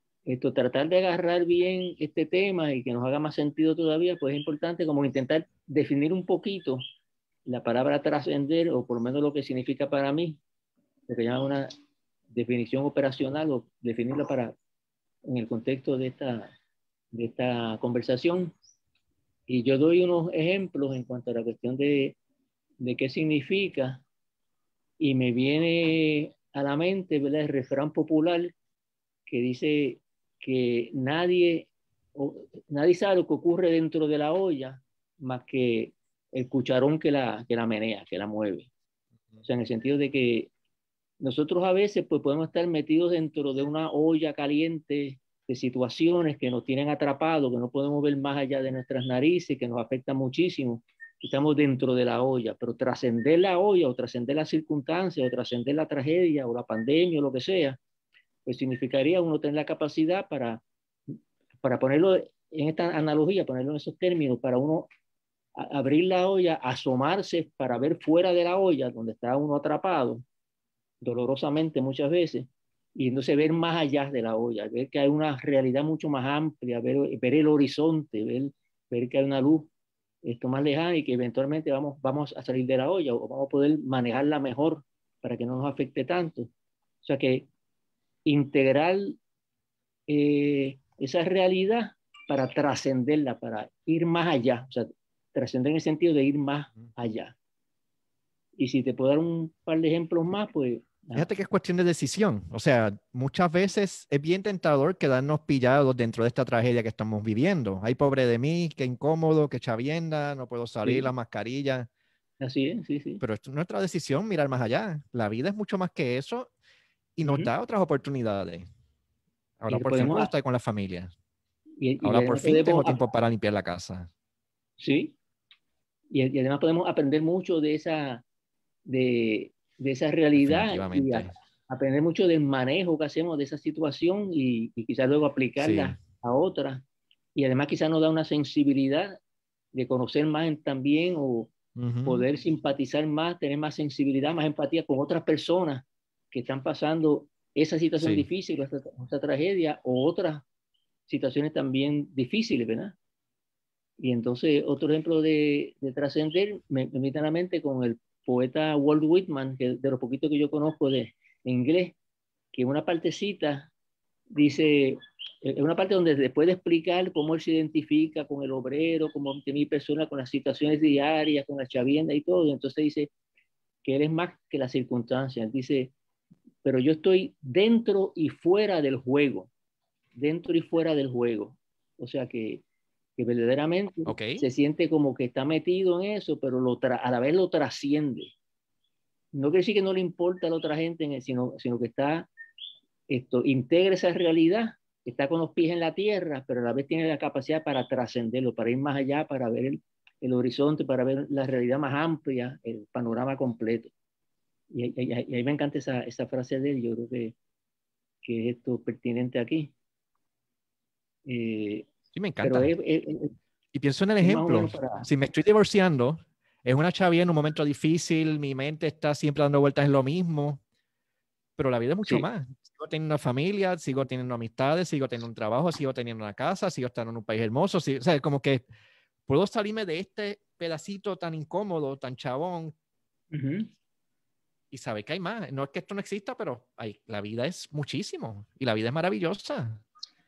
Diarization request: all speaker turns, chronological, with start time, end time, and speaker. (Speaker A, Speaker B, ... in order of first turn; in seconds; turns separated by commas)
Speaker A: 0.3-6.8, Speaker A: 7.5-10.4, Speaker A: 11.1-11.7, Speaker A: 12.3-14.6, Speaker A: 15.2-16.5, Speaker A: 17.1-18.5, Speaker A: 19.5-22.2, Speaker A: 22.8-24.0, Speaker A: 25.0-28.5, Speaker A: 29.3-38.7, Speaker A: 39.4-40.5, Speaker A: 41.2-57.8, Speaker A: 58.5-64.9, Speaker A: 65.5-70.2, Speaker A: 71.0-79.7, Speaker A: 80.2-86.5, Speaker A: 87.0-87.5, Speaker A: 88.2-89.2, Speaker A: 90.1-97.3, Speaker A: 98.6-101.3, Speaker B: 101.2-111.9, Speaker A: 110.8-111.1, Speaker A: 112.4-113.2, Speaker B: 113.2-116.5, Speaker B: 117.2-118.7, Speaker A: 117.2-117.5, Speaker B: 119.6-121.1, Speaker A: 119.7-120.3, Speaker A: 121.8-123.0, Speaker B: 122.0-124.1, Speaker A: 124.8-125.2, Speaker A: 126.1-128.2, Speaker A: 128.9-136.8, Speaker B: 130.3-131.3, Speaker B: 135.6-136.0, Speaker A: 137.3-139.2, Speaker A: 139.7-141.5, Speaker B: 141.8-142.3, Speaker A: 142.1-150.4, Speaker B: 148.0-148.3, Speaker A: 151.1-153.0, Speaker A: 154.0-162.0, Speaker A: 162.5-163.7, Speaker A: 164.3-173.1, Speaker A: 173.8-175.9, Speaker A: 176.6-179.5, Speaker A: 180.2-182.7, Speaker A: 183.2-188.3, Speaker B: 184.1-184.4, Speaker A: 189.3-192.3, Speaker A: 193.1-203.9, Speaker A: 204.7-207.3, Speaker A: 208.2-209.7, Speaker A: 211.2-211.9, Speaker B: 212.2-212.7, Speaker A: 212.4-213.3, Speaker B: 213.7-220.6, Speaker A: 214.2-215.1, Speaker B: 221.6-228.7, Speaker B: 229.3-232.7, Speaker A: 233.3-233.7, Speaker B: 234.7-239.8